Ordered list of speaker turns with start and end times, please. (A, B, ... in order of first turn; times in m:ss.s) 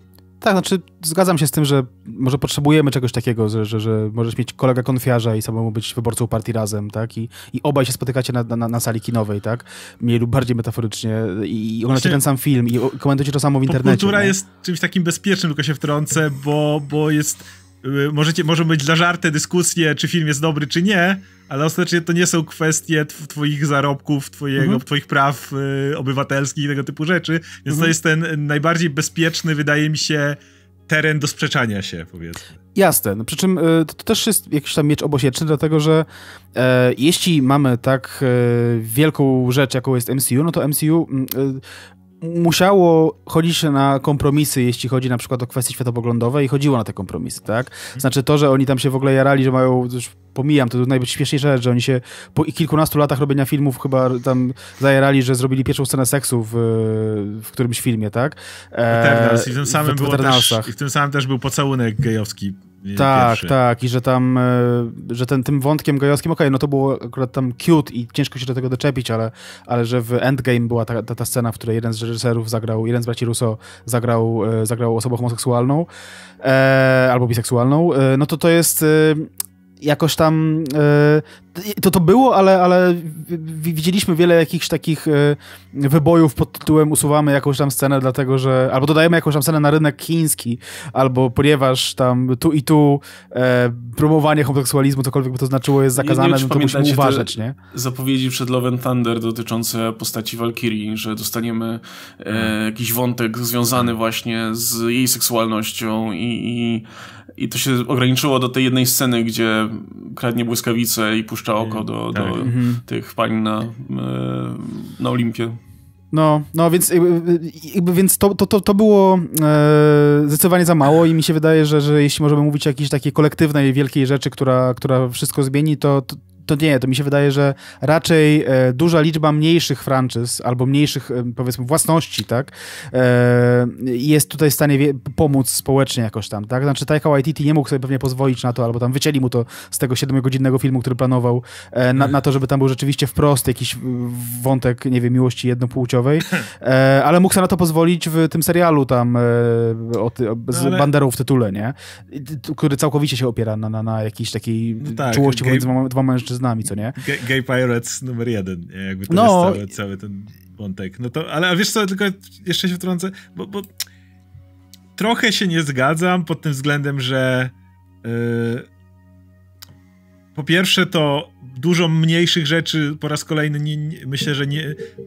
0:00.4-0:14.3 A
0:11.9-0:12.2 B
0:13.7-0:32.5 B
0:32.7-0:41.6 A
0:42.2-1:00.7 A
0:58.9-1:03.5 B
1:03.0-1:15.9 A
1:16.4-1:19.3 A
1:19.8-1:37.6 A
1:35.9-1:55.6 C
1:51.6-1:52.5 B
1:52.4-1:52.8 A
1:56.1-2:37.0 A
2:30.5-2:30.9 B
2:34.8-2:35.7 B
2:37.0-2:43.7 B
2:39.1-2:39.6 A
2:45.0-2:48.7 B
2:50.3-2:54.8 B